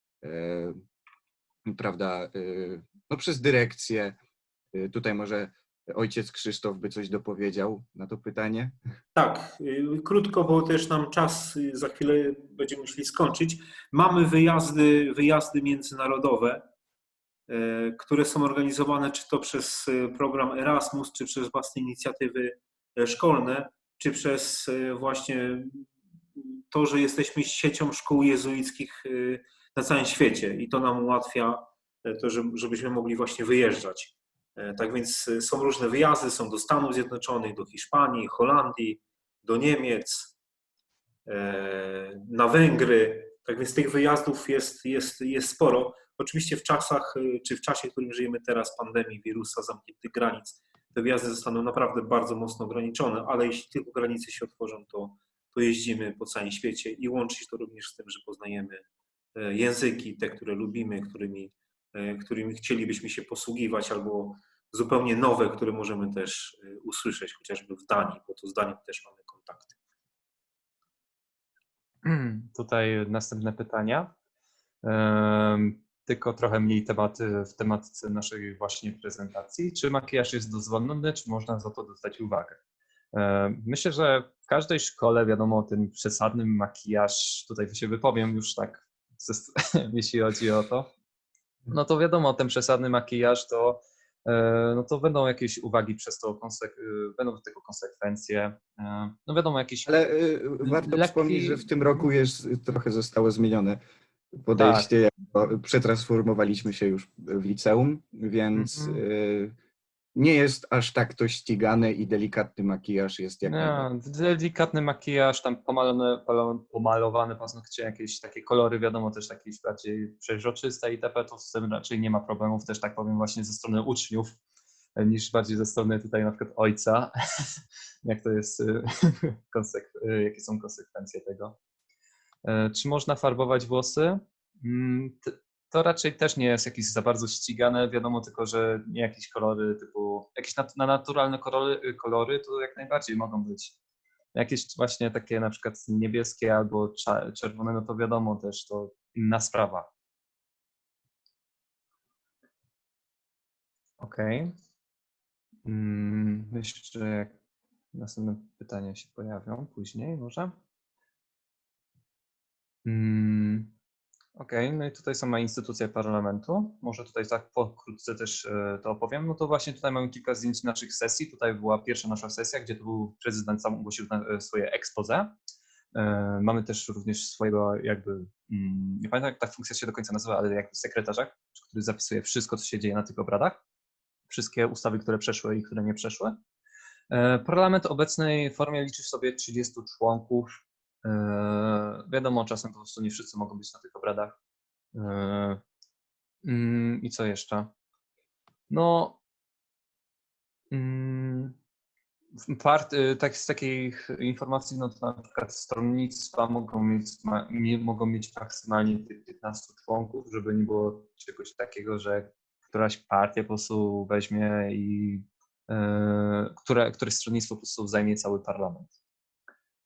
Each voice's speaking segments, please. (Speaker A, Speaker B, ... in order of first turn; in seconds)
Speaker A: 0.2-0.8, 1.6-4.2, 4.7-8.8, 99.8-103.8, 104.4-109.5, 110.1-113.9
Speaker B: 9.1-16.7, 17.5-40.3, 41.2-69.7
Speaker C: 72.0-74.1, 74.8-82.6, 83.1-90.9, 91.7-100.0, 100.6-101.7, 104.5-104.9, 108.5-109.0, 113.4-124.4, 125.0-131.6, 132.4-143.7, 144.3-149.9, 154.0-154.5, 155.6-157.3, 157.9-160.5, 162.8-163.7, 164.3-175.3, 175.9-183.6, 184.3-186.4, 187.1-194.3, 194.9-195.6, 196.4-197.7, 198.7-199.2, 200.7-201.6, 202.4-218.9